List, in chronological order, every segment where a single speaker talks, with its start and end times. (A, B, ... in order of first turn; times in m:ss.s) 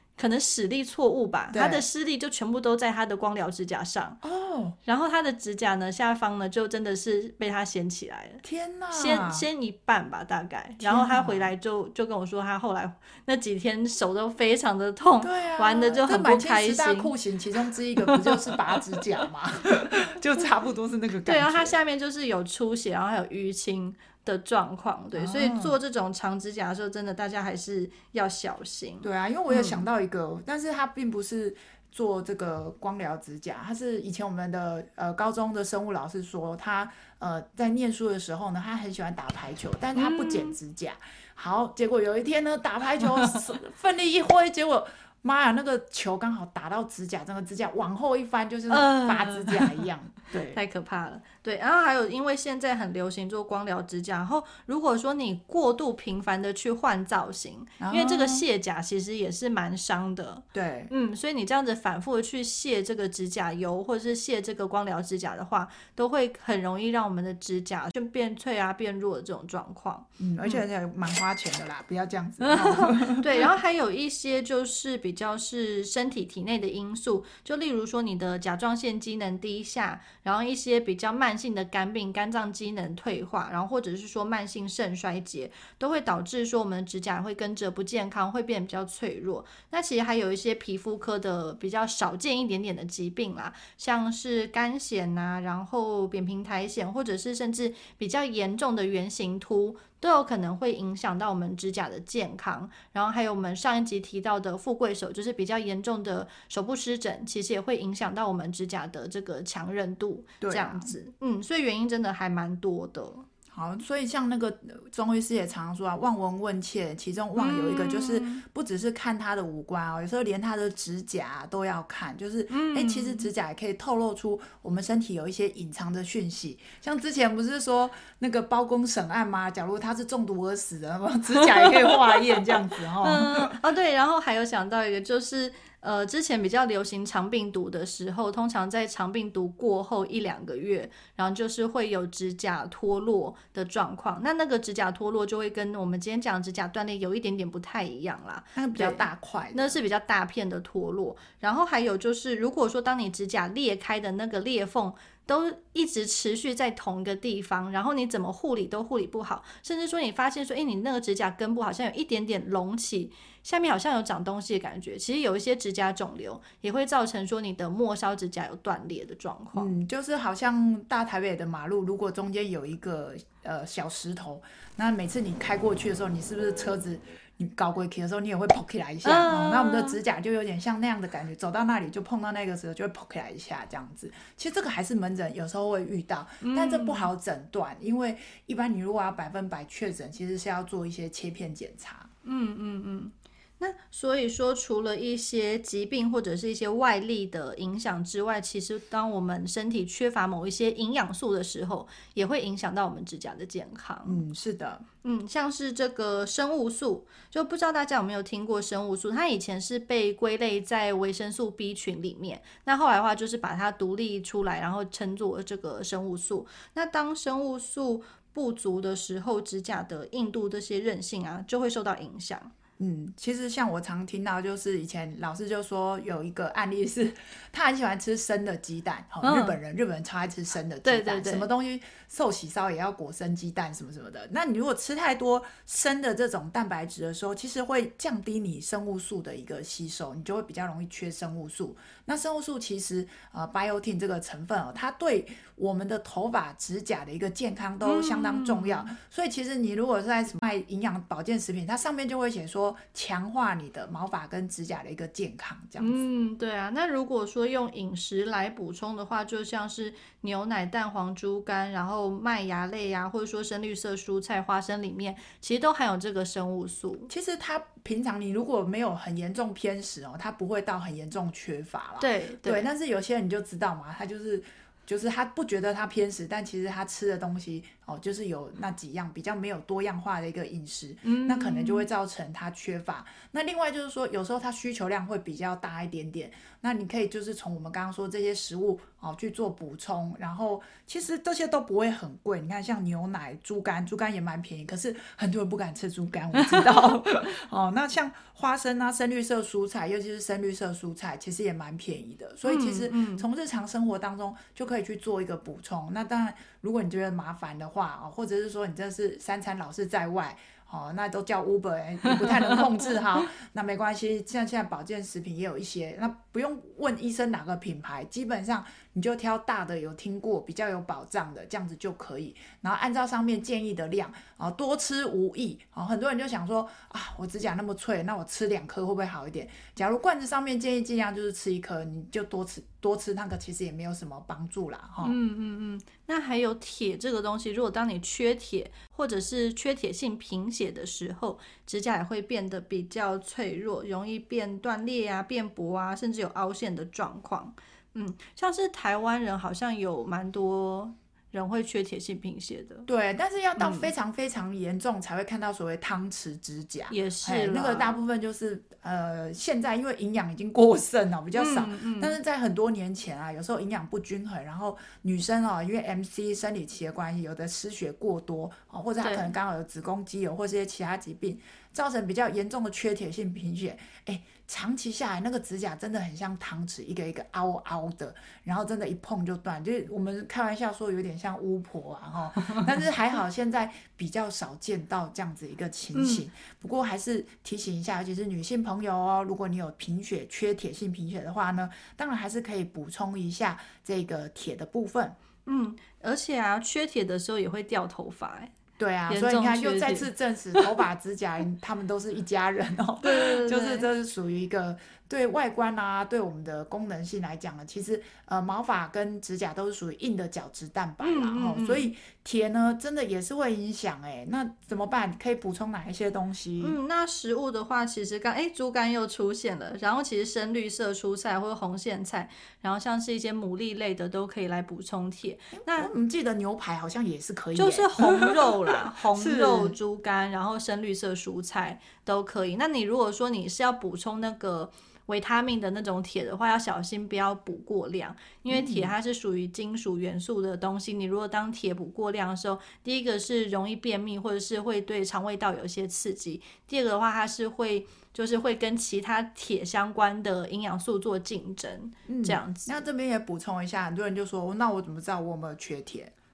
0:00.2-0:04.2 A
0:01.5-0:01.9 B
0:04.2-0:04.8 B
0:04.8-0:17.1 A
0:08.4-0:09.5 B
0:10.8-0:11.5 B
0:15.2-0:21.8 B
0:18.0-0:18.6 A
0:21.2-0:29.8 A
0:25.1-0:25.8 B
0:29.0-0:50.6 B
0:39.9-0:40.6 A
0:43.0-0:43.4 A
0:48.7-0:49.8 A
0:50.4-1:10.6 A
0:57.8-0:58.4 B
1:00.5-1:00.9 B
1:10.2-1:13.5 B
1:12.4-1:53.2 A
1:50.4-1:51.0 B
1:53.5-2:13.6 B
1:57.4-1:58.4 A
2:02.5-2:03.3 A
2:11.4-2:12.4 A
2:13.0-2:49.7 A
2:28.6-2:29.8 B
2:49.5-3:12.1 B
2:59.0-3:00.0 A
3:06.4-3:07.1 A
3:12.2-3:24.2 A
3:24.0-3:24.8 B
3:25.0-3:42.5 A
3:42.8-4:16.0 B
3:49.2-3:49.6 A
3:50.8-3:51.5 A
4:07.8-4:08.9 A
4:15.8-4:27.1 A
4:27.1-5:35.2 B
4:32.0-4:32.7 A
4:41.0-4:41.9 A
4:56.3-4:57.1 A
5:02.4-5:03.2 A
5:12.0-5:13.3 A
5:35.0-5:52.9 A
5:52.9-6:35.2 B
5:53.6-5:53.9 A
5:56.9-5:57.9 A
6:01.4-6:02.2 A
6:09.0-6:09.3 A
6:25.9-6:26.2 A
6:35.4-6:38.5 A
6:38.8-6:56.8 B
6:39.1-6:40.6 A
6:43.0-6:43.9 A
6:51.0-6:51.9 A
6:56.6-7:05.9 A
7:05.5-7:08.5 B
7:07.5-7:32.8 A
7:09.1-7:09.8 B
7:18.5-7:18.9 B
7:32.1-7:36.1 B